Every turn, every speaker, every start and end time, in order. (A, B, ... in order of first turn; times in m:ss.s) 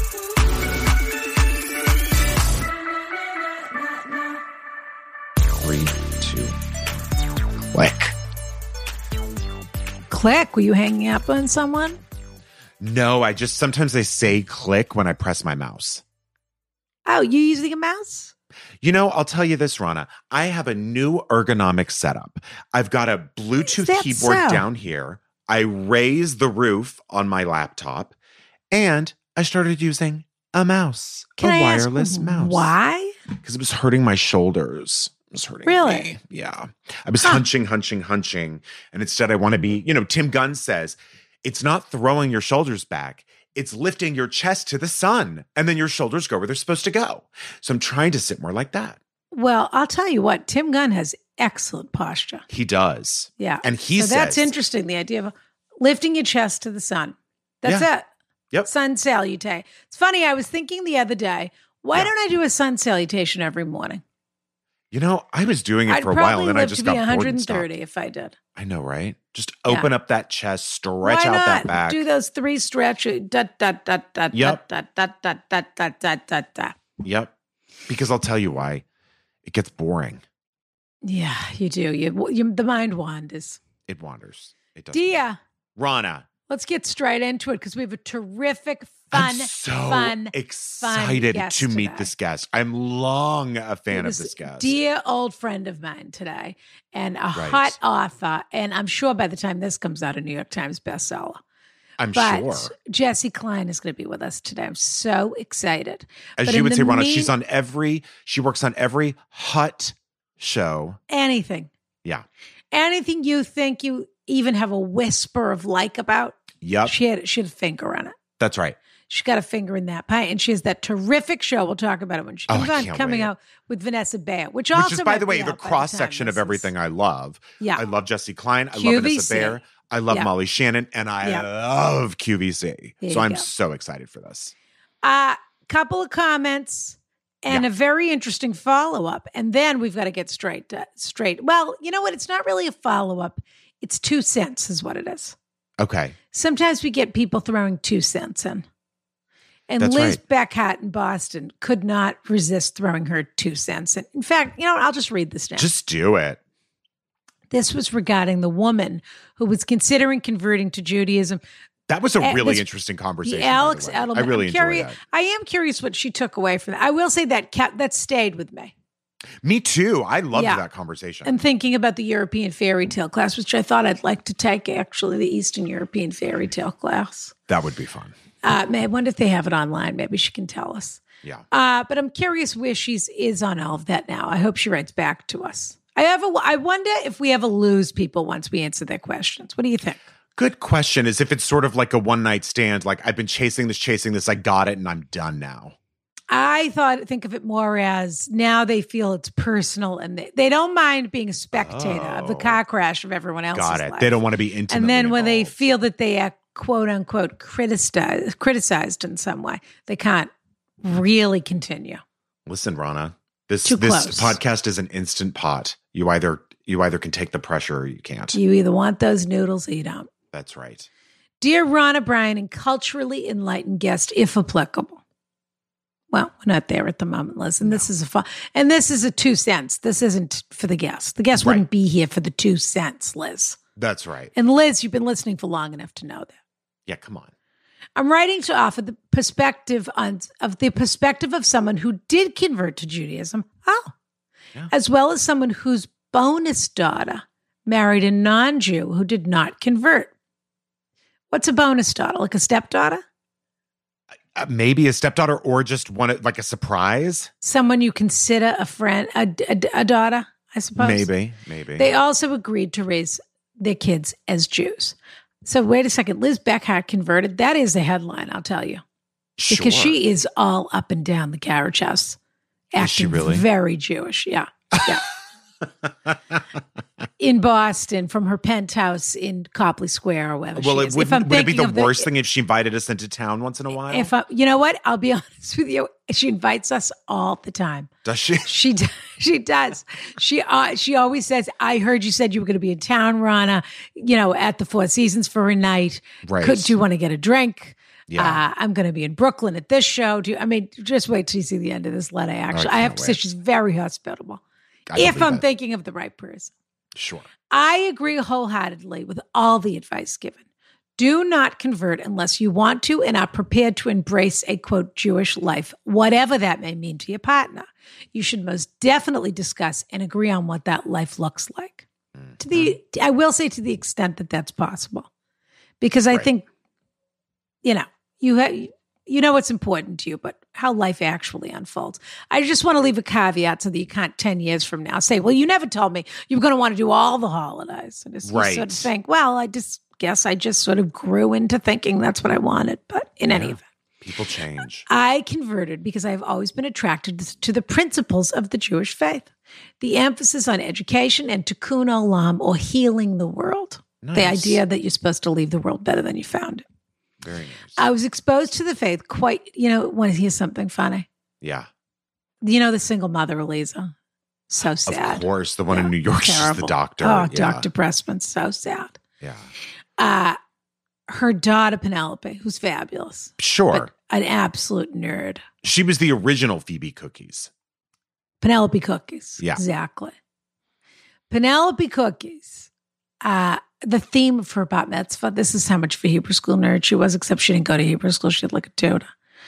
0:05.6-0:06.6 A
0:07.7-0:08.2 A
0:10.1-0:12.0 B
0:12.8-0:16.0 A
0:17.1-0:18.3 B
0:18.8-0:28.2 A
0:23.6-0:24.6 B
0:28.7-0:32.8 A
0:31.4-0:33.2 B
0:33.4-0:49.0 A
0:35.7-0:36.1 B
0:49.3-0:52.4 B
0:52.5-0:54.5 A
0:53.4-0:58.1 B
0:58.6-1:04.0 B
1:04.9-1:07.7 A
1:05.9-1:08.4 B
1:08.6-1:12.0 A
1:11.0-1:16.8 B
1:14.3-1:14.6 A
1:17.0-1:17.3 A
1:17.9-1:18.8 A
1:19.4-1:20.2 A
1:21.0-1:23.6 B
1:23.9-1:25.2 A
1:24.9-1:25.4 B
1:25.8-1:26.3 A
1:26.5-1:32.1 B
1:29.1-1:34.8 A
1:33.9-1:41.4 B
1:37.3-1:37.8 A
1:42.0-1:42.7 A
1:42.1-1:47.3 B
1:46.4-1:51.0 A
1:51.1-1:51.7 B
1:52.7-1:58.2 B
1:56.6-1:56.9 A
1:58.4-1:58.8 A
1:59.1-2:06.7 B
2:02.5-2:03.3 A
2:04.7-2:14.5 A
2:08.7-2:09.6 B
2:13.0-2:13.5 B
2:15.0-2:25.4 B
2:25.8-2:26.2 A
2:26.3-2:28.6 B
2:29.7-2:35.7 B
2:29.8-2:30.2 A
2:35.6-2:36.4 A
2:37.5-2:41.4 B
2:41.9-2:45.0 A
2:42.2-2:42.7 B
2:43.2-2:48.7 B
2:49.4-2:51.3 A
2:50.3-2:50.6 B
2:51.2-2:57.3 B
2:57.5-2:58.2 A
2:58.4-3:10.0 B
3:10.4-3:15.8 A
3:16.3-3:30.3 B
3:21.5-3:22.6 A
3:23.5-3:25.6 A
3:30.8-3:32.0 B
3:32.5-3:38.4 A
3:33.6-3:34.4 B
3:38.3-3:40.1 B
3:40.3-3:40.9 A
3:41.4-3:45.0 B
3:46.1-3:53.6 B
3:47.6-3:47.9 A
3:51.4-3:51.6 A
3:53.8-3:54.3 A
3:54.4-3:56.3 B
3:56.9-3:57.3 A
3:58.0-4:03.9 B
4:04.7-4:10.1 B
4:11.3-4:13.0 B
4:14.4-4:17.3 A
4:17.4-4:21.1 B
4:20.8-4:21.9 A
4:21.8-4:28.8 B
4:29.4-4:30.0 A
4:29.5-4:32.2 B
4:32.7-4:35.0 B
4:32.8-4:33.4 A
4:36.1-4:36.4 A
4:37.2-4:42.1 B
4:40.6-4:44.1 A
4:43.8-4:47.9 B
4:48.0-4:48.5 A
4:48.4-5:04.4 B
4:56.2-4:56.8 A
4:58.1-4:58.4 A
5:02.5-5:03.2 A
5:04.9-5:05.4 A
5:04.9-5:06.5 B
5:07.0-5:07.3 A
5:07.5-5:10.4 B
5:11.0-5:21.8 B
5:22.2-5:22.8 A
5:22.4-5:25.1 B
5:25.8-5:26.5 B
5:27.6-5:43.6 B
5:38.2-5:38.9 A
5:43.3-5:44.9 A
5:44.9-5:49.3 B
5:49.8-5:56.6 B
5:54.0-5:54.6 A
5:57.2-5:57.9 A
5:57.8-6:01.1 B
6:01.4-6:01.7 A
6:02.4-6:03.9 B
6:04.5-6:09.0 B
6:04.8-6:07.7 A
6:09.2-6:09.5 A
6:10.0-6:10.4 B
6:11.1-6:15.4 B
6:13.4-6:13.9 A
6:15.6-6:17.5 A
6:18.4-6:20.1 B
6:21.3-6:22.7 B
6:23.2-6:29.1 B